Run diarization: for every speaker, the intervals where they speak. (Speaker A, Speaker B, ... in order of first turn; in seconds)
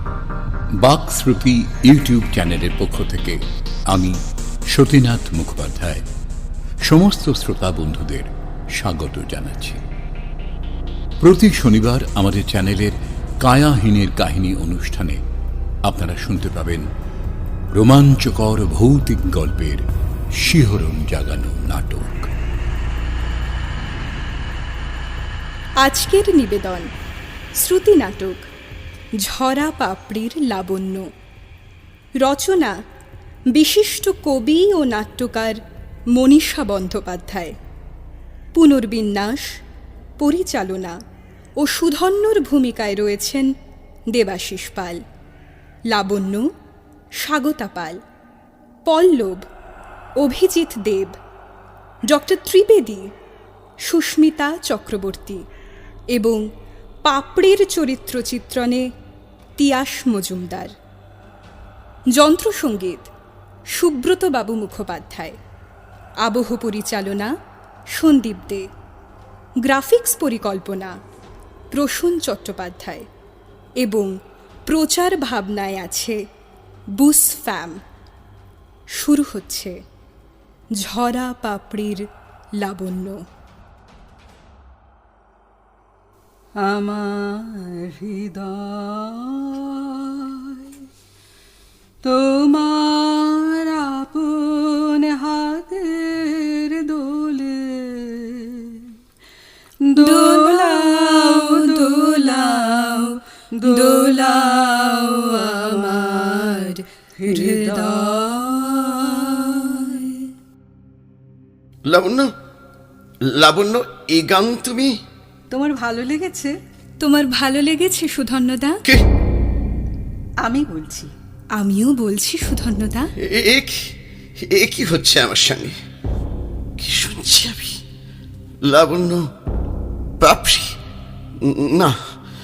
Speaker A: 0.8-4.2, 4.7-6.0, 6.8-9.8, 11.2-15.2, 15.8-16.9, 17.7-19.8, 20.4-22.3
Speaker B: 25.8-26.9, 27.6-28.5, 29.2-31.1, 32.2-32.7, 33.5-35.6, 36.1-37.5, 38.5-39.6, 40.2-41.0, 41.6-43.5, 44.1-45.0, 45.9-46.5, 47.2-48.0, 48.9-49.5, 50.2-51.1, 52.1-53.1, 53.9-55.4, 56.1-56.4, 57.0-58.8, 59.6-60.7, 62.1-63.1, 63.7-65.4, 66.2-67.3, 68.0-68.7, 69.7-70.9, 71.7-73.1, 73.8-74.1, 74.7-76.2, 77.0-77.8, 79.0-79.8, 80.8-82.0, 82.6-83.2, 100.0-103.0, 103.7-104.4, 105.6-106.8, 107.3-108.1, 117.0-118.8, 121.6-123.1
Speaker C: 86.6-90.7, 92.0-98.9, 99.8-110.2, 115.5-116.5, 120.4-121.1
Speaker D: 111.9-112.3, 113.3-115.0, 123.2-125.8, 126.8-127.8, 128.7-129.3, 130.2-130.7, 131.4-132.0